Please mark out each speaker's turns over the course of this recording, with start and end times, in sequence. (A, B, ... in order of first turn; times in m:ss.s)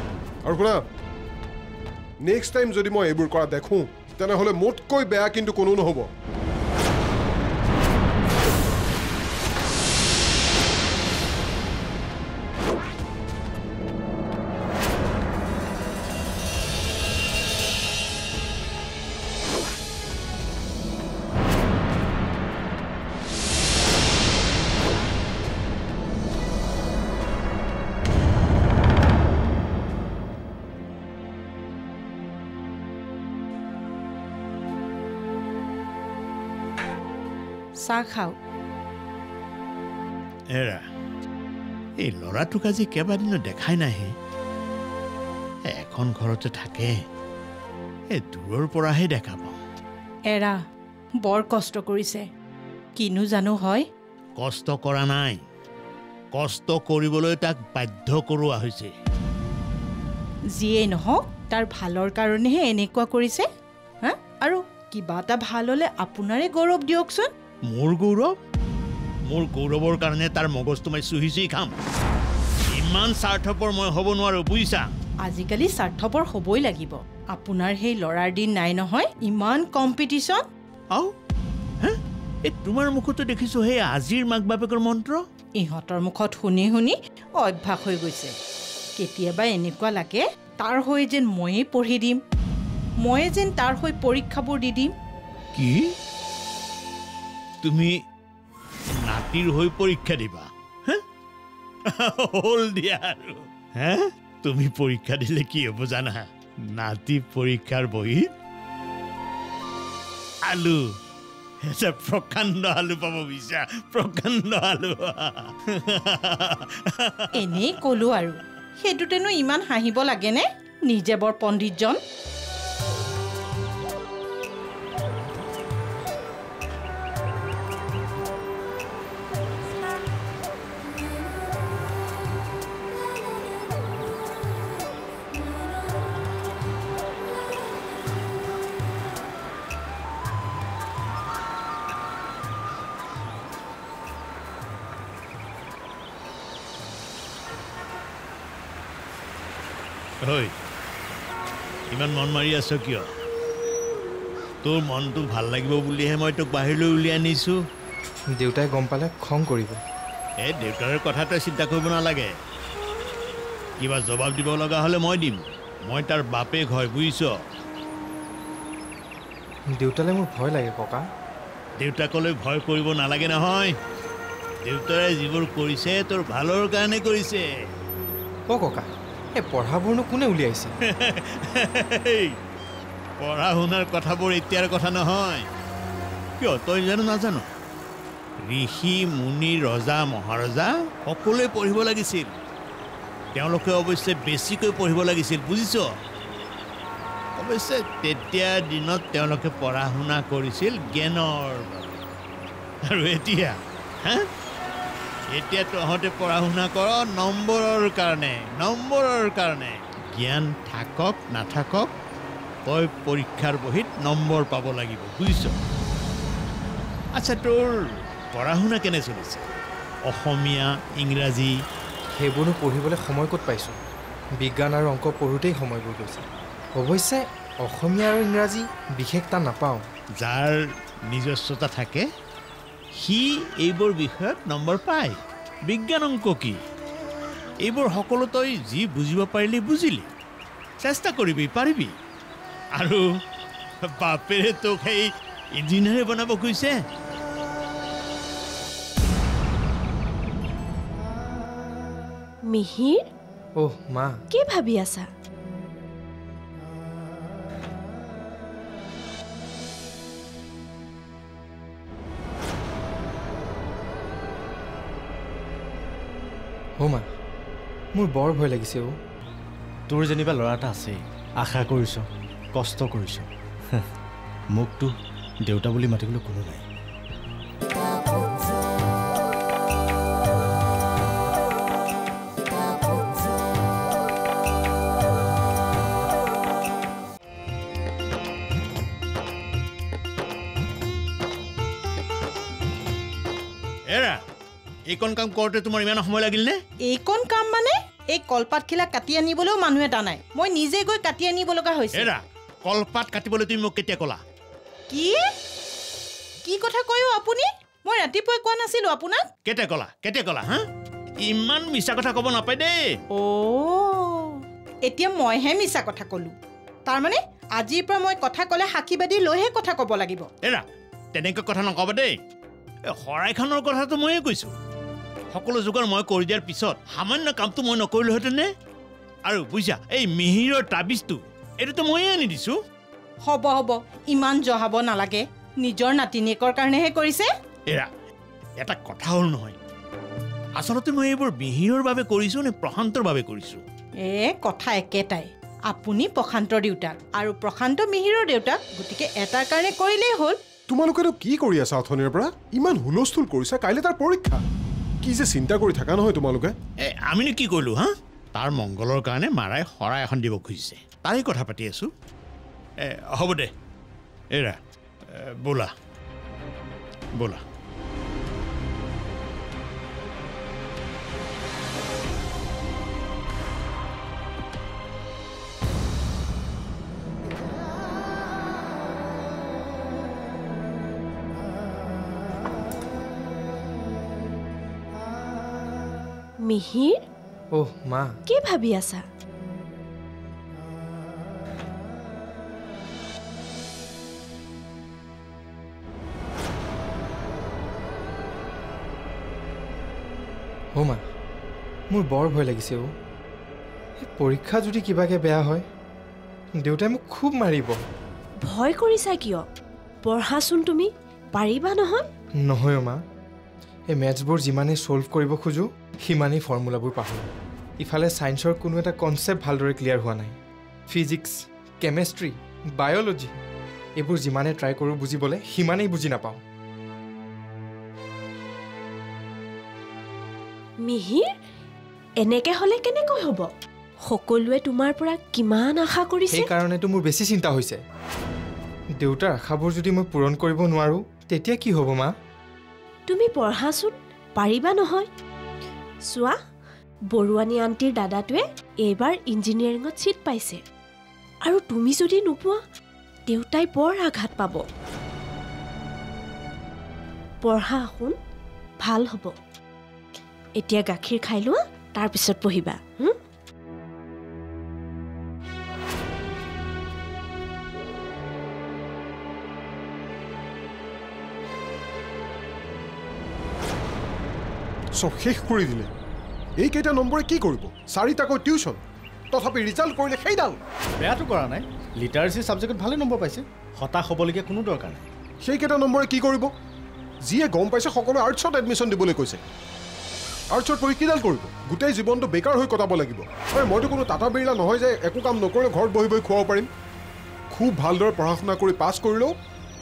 0:00.4-0:00.8 A
0:02.2-0:06.1 A
0:37.8-0:38.3 B
0:40.5-0:40.8 C
0:42.0-0:44.1 C
0:45.7-0:46.9 C
0:48.1-0:49.6 C
0:50.3-0:50.6 B
0:51.2-0:52.3 B
0:53.0-0:53.8 B
0:54.4-0:55.4 C
0:56.3-0:58.9 C
1:00.5-1:03.5 B
1:04.0-1:07.3 B
1:07.7-1:08.3 C
1:09.3-1:11.7 C
1:12.7-1:14.9 C
1:15.2-1:20.4 B
1:21.8-1:25.2 C
1:25.6-1:28.3 B
1:29.0-1:32.2 B
1:33.0-1:34.9 B
1:35.5-1:35.9 C
1:37.6-1:38.0 C
1:38.9-1:41.0 C
1:41.8-1:48.2 C
1:50.4-1:50.9 C
1:51.6-1:57.4 C
1:57.3-2:02.0 B
2:30.2-2:30.5 C
2:31.9-2:33.1 C
2:34.6-2:37.6 C
2:38.4-2:39.8 D
2:40.4-2:42.3 C
2:43.8-2:47.3 C
2:49.7-2:51.0 D
2:51.8-2:53.8 C
2:54.6-2:57.4 C
2:58.5-3:00.7 D
3:00.9-3:02.3 C
3:03.2-3:05.4 C
3:06.4-3:07.4 C
3:08.4-3:12.4 C
3:13.3-3:15.9 C
3:17.4-3:22.0 C
3:22.9-3:24.3 C
3:25.3-3:31.9 C
3:32.7-3:35.6 C
3:37.2-3:37.7 C
3:38.3-3:39.4 C
3:40.0-3:41.5 C
3:42.1-3:43.8 D
3:44.4-3:49.8 D
3:50.2-3:52.1 C
3:52.9-3:56.6 C
3:57.6-4:00.1 C
4:00.8-4:01.9 C
4:02.8-4:03.0 C
4:03.9-4:06.7 C
4:12.5-4:13.0 E
4:13.6-4:14.2 D
4:14.3-4:15.1 E
4:26.8-4:27.1 D
4:27.9-4:28.9 D
4:29.9-4:32.0 F
4:32.5-4:33.9 F
4:34.5-4:34.9 F
4:35.5-4:36.6 F
4:53.9-4:54.2 C
4:54.9-4:56.6 C
4:56.9-5:02.1 B
5:02.0-5:04.2 C
5:04.9-5:05.2 B
5:06.4-5:09.3 B
5:09.4-5:10.6 C
5:11.2-5:13.0 C
5:13.1-5:16.3 B
5:16.9-5:20.3 B
5:20.4-5:22.1 C
5:22.9-5:24.5 C
5:25.3-5:28.5 C
5:29.2-5:32.6 C
5:33.2-5:37.3 B
5:38.6-5:39.6 C
5:40.6-5:43.6 C
5:44.0-5:50.4 B
5:50.7-5:54.4 A
5:55.0-5:56.5 A
5:56.8-6:01.9 C
6:02.8-6:03.5 C
6:05.1-6:05.7 C
6:26.4-6:27.0 E
6:27.5-6:28.2 D
6:28.3-6:29.0 E
6:40.8-6:41.0 D
6:41.9-6:42.9 D
6:44.0-6:45.6 D
6:46.6-6:47.8 D
6:48.4-6:49.4 E
6:50.0-6:52.0 E
6:52.4-6:53.0 D
6:53.9-6:57.3 D
6:57.8-7:00.4 D
7:00.9-7:03.3 D
7:04.0-7:06.4 D
7:10.8-7:11.3 E
7:12.2-7:13.5 E
7:14.0-7:16.5 E
7:16.3-7:17.8 D
7:19.0-7:22.1 D
7:23.1-7:25.1 E
7:26.1-7:26.4 E
7:27.1-7:30.6 E
7:31.4-7:32.6 E
7:33.3-7:34.6 E
7:37.4-7:38.2 E
7:38.8-7:39.3 E
7:40.6-7:43.1 E
7:55.0-7:55.9 A
7:56.6-7:58.8 A
7:59.3-8:00.6 A
8:01.0-8:05.1 F
8:05.4-8:06.5 A
8:07.3-8:09.4 A
8:10.5-8:16.7 A
8:17.5-8:19.3 A